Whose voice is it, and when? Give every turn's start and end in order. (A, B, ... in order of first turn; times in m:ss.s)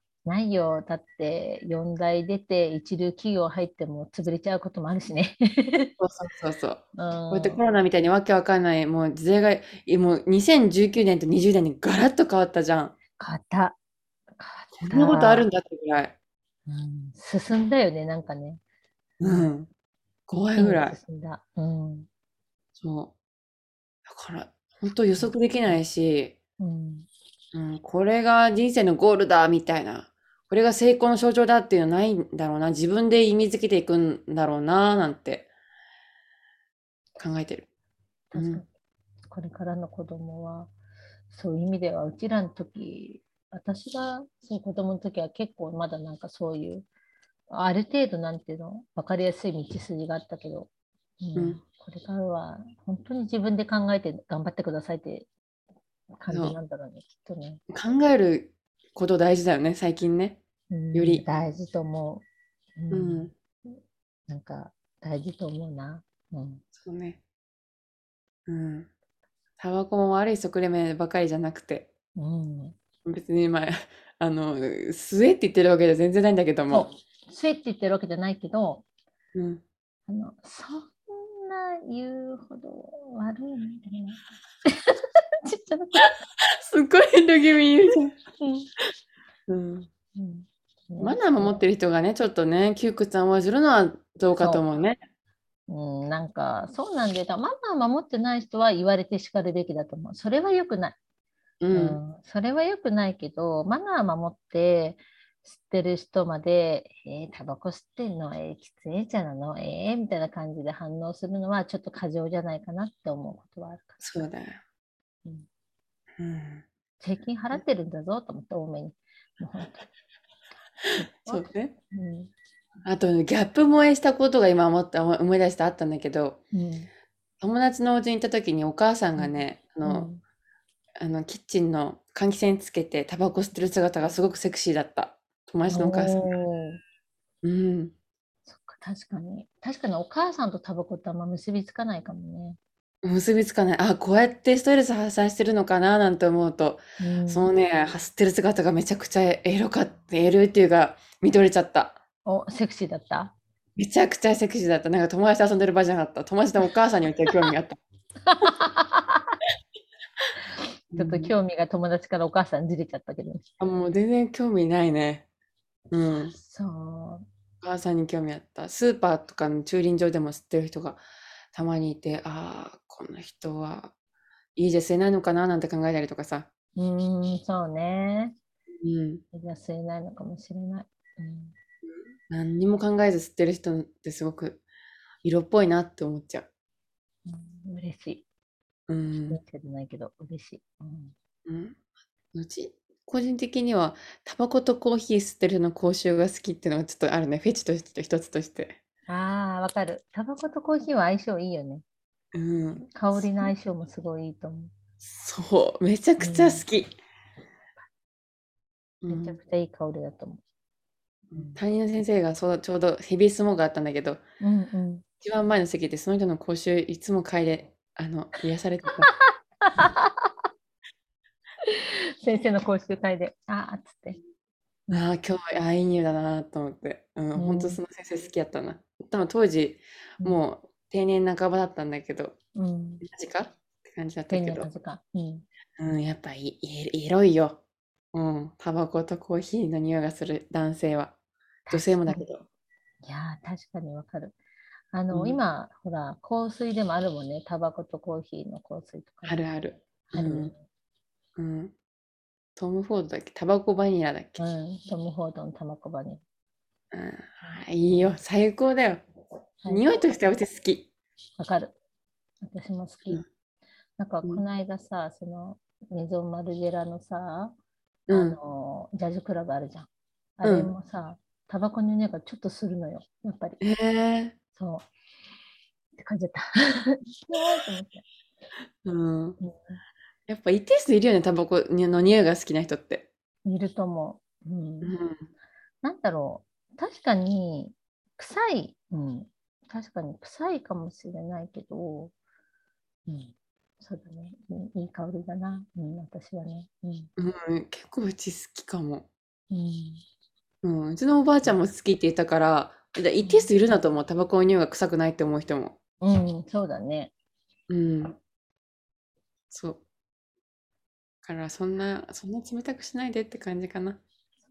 0:00.2-0:05.9 A
0:06.0-0:12.9 B
0:07.0-0:07.6 A
0:13.2-0:13.8 A
0:14.4-0:15.5 A
0:14.8-0:16.1 B
0:16.6-0:18.6 A
0:19.2-0:19.7 B
0:19.2-0:19.5 A
0:20.3-0:21.0 B
0:20.5-0:22.1 A
0:22.8-0:23.1 B
0:24.0-0:26.3 B
0:26.6-0:27.1 A
0:27.5-0:35.5 B
0:37.2-0:37.6 B
0:38.3-0:38.7 A
0:38.3-0:38.6 B
0:39.2-0:40.7 A
0:41.3-0:46.8 A
0:47.5-0:50.7 A
0:51.2-0:55.3 A
0:51.3-0:51.6 B
0:56.2-0:57.6 A
0:56.3-0:56.6 B
0:57.7-1:00.4 B
1:00.7-1:02.2 A
1:00.9-1:01.2 B
1:02.8-1:03.8 A
1:02.9-1:03.3 B
1:04.3-1:06.6 A
1:06.8-1:07.2 B
1:08.5-1:08.9 B
1:09.6-1:11.9 B
1:12.2-1:12.8 A
1:13.0-1:16.9 B
1:16.7-1:18.8 A
1:19.3-1:19.6 B
1:20.1-1:26.2 A
1:26.0-1:28.1 B
1:28.4-1:28.7 A
1:29.5-1:29.9 B
1:30.1-1:31.6 A
1:31.0-1:35.0 B
1:34.4-1:34.6 A
1:35.7-1:41.0 A
1:41.6-1:42.0 B
1:41.7-1:54.0 A
1:54.0-1:54.6 B
1:56.2-1:56.6 B
1:57.0-1:59.8 A
2:01.0-2:02.3 A
2:01.2-2:01.7 B
2:02.8-2:06.4 B
2:06.5-2:06.9 A
2:07.4-2:10.1 B
2:09.2-2:10.2 A
2:11.0-2:16.2 B
2:15.7-2:16.8 A
2:17.4-2:17.9 B
2:18.5-2:22.6 A
2:23.0-2:32.0 B
2:27.0-2:27.5 A
2:32.2-2:33.3 A
2:33.8-2:37.8 B
2:38.2-2:39.4 A
2:40.9-2:41.3 B
2:41.0-2:43.4 A
2:43.6-2:45.2 B
2:45.9-2:46.3 B
2:46.3-2:47.2 A
2:47.6-2:53.9 B
2:54.6-2:56.5 B
2:56.8-2:58.3 A
2:58.8-2:59.2 B
2:59.3-3:01.5 A
3:01.8-3:04.6 B
3:05.2-3:06.4 B
3:07.2-3:08.2 A
3:08.9-3:09.4 B
3:09.3-3:11.1 A
3:11.4-3:11.8 B
3:12.3-3:18.8 B
3:19.1-3:21.8 A
3:22.3-3:23.5 B
3:22.8-3:24.7 A
3:25.0-3:26.9 B
3:26.2-3:26.6 A
3:29.0-3:29.4 B
3:29.1-3:30.4 A
3:31.3-3:34.2 B
3:31.3-3:31.6 A
3:34.4-3:35.0 A
3:35.2-3:39.1 B
3:38.9-3:40.3 A
3:41.6-3:44.2 A
3:44.9-3:52.4 B
3:47.3-3:47.8 A
3:52.5-3:53.0 A
3:53.0-3:54.7 B
3:54.3-3:55.4 A
3:55.8-3:57.6 B
3:58.1-4:01.1 B
4:01.7-4:02.2 A
4:01.7-4:02.4 B
4:03.0-4:04.4 A
4:04.9-4:09.4 A
4:05.1-4:05.4 B
4:09.2-4:10.5 B
4:10.1-4:10.6 A
4:11.4-4:11.7 B
4:12.6-4:14.4 B
4:14.4-4:16.2 A
4:16.9-4:19.0 B
4:17.5-4:18.0 A
4:19.6-4:20.0 A
4:19.7-4:20.9 B
4:21.4-4:21.7 A
4:22.4-4:23.2 A
4:24.0-4:27.5 A
4:28.1-4:28.4 B
4:28.1-4:29.9 A
4:30.4-4:33.6 A
4:30.4-4:30.7 B
4:33.6-4:34.3 B
4:34.6-4:34.9 A
4:36.0-4:38.0 A
4:38.8-4:39.4 B
4:39.4-4:39.8 A
4:40.3-4:43.1 B
4:43.4-4:45.0 A
4:44.8-4:45.3 B
4:45.8-4:52.1 A
4:53.1-4:57.1 A
4:57.2-4:59.1 B
4:59.5-5:00.0 A
5:00.6-5:05.8 B
5:03.2-5:03.5 A
5:06.0-5:07.1 A
5:07.7-5:08.2 B
5:09.5-5:09.8 B
5:11.2-5:14.0 B